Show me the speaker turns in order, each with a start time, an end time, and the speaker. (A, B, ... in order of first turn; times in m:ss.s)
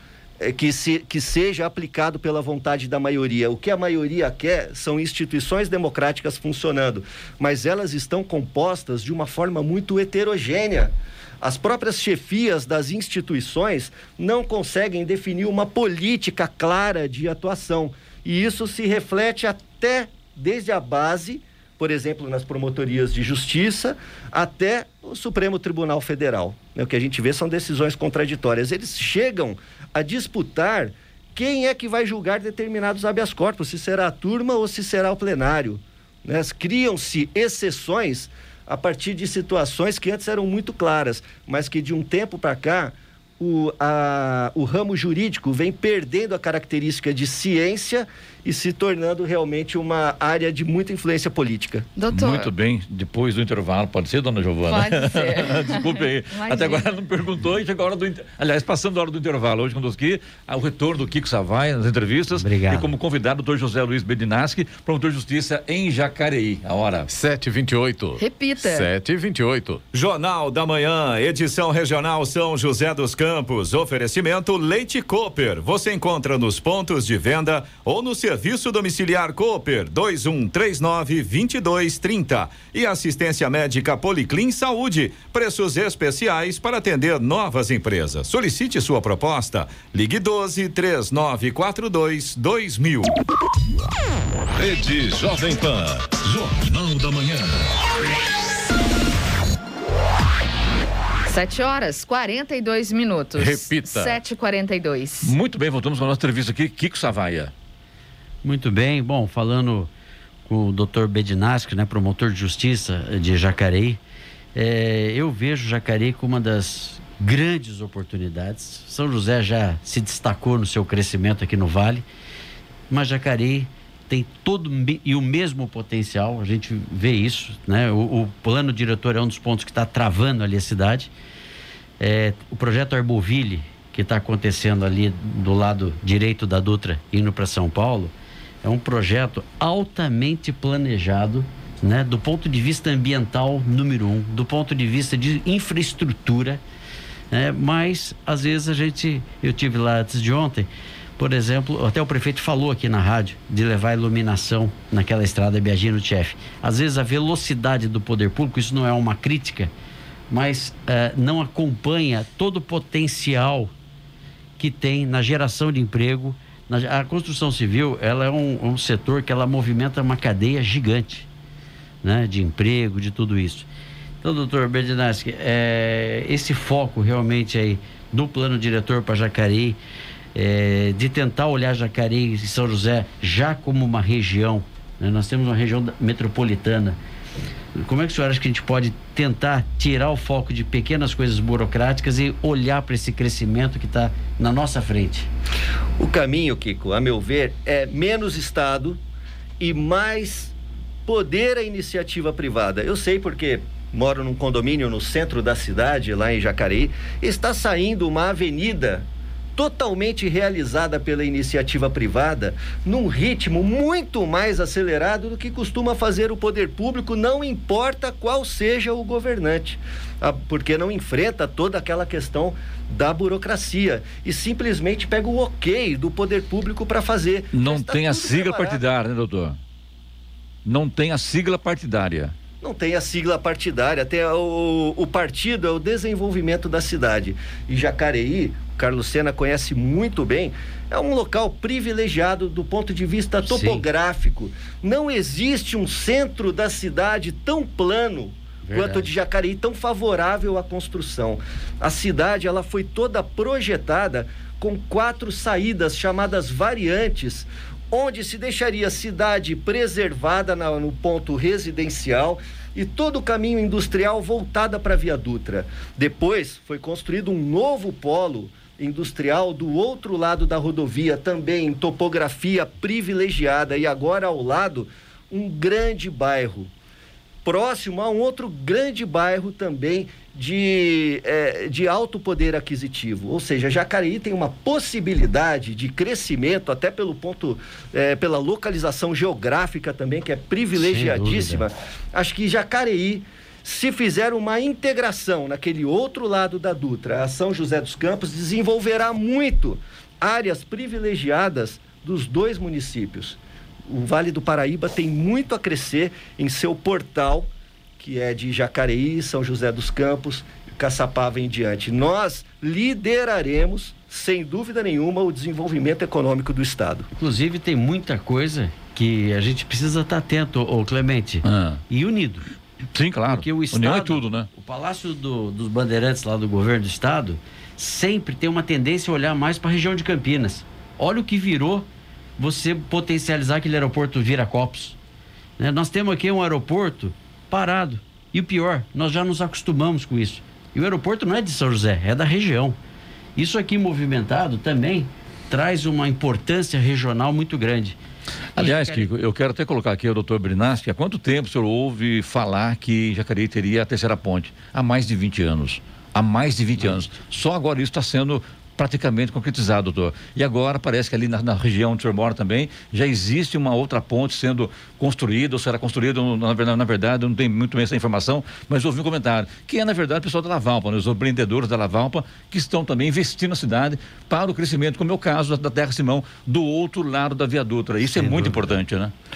0:00.4-0:51.9 A
0:52.0-0:52.5 B
0:52.1-1:07.1 C
0:54.7-0:56.9 B
1:02.3-1:02.9 D
1:07.1-1:09.8 E
1:08.2-1:08.9 B
1:09.9-1:33.2 F
1:34.6-1:37.8 G
1:41.3-1:45.3 B
1:43.4-1:44.2 E
1:45.2-1:47.5 C
1:48.4-1:49.9 D
1:50.5-1:54.0 D
1:54.6-2:02.0 D
2:02.9-2:11.1 D
2:12.0-2:26.6 D
2:27.3-2:39.7 D
2:40.3-2:43.7 D
2:44.6-2:51.3 D
2:52.0-2:53.7 D
2:54.2-2:59.8 D
3:00.3-3:07.0 D
3:07.8-3:15.3 D
3:16.0-3:19.0 A
3:19.6-3:20.6 A
3:21.1-3:48.8 A
3:47.5-3:49.6 C
3:50.6-3:52.3 C
3:52.6-4:36.7 A
4:03.4-4:03.9 D
4:08.6-4:09.1 D
4:37.4-5:17.1 A
4:50.7-4:51.7 D
5:17.2-5:22.5 D
5:21.4-5:21.8 C
5:22.9-5:24.5 C
5:23.3-5:31.9 D
5:32.4-5:35.0 D
5:35.6-5:42.8 D
5:43.4-5:48.0 D
5:48.6-5:49.1 D
5:48.6-6:19.1 C
6:18.2-6:18.8 D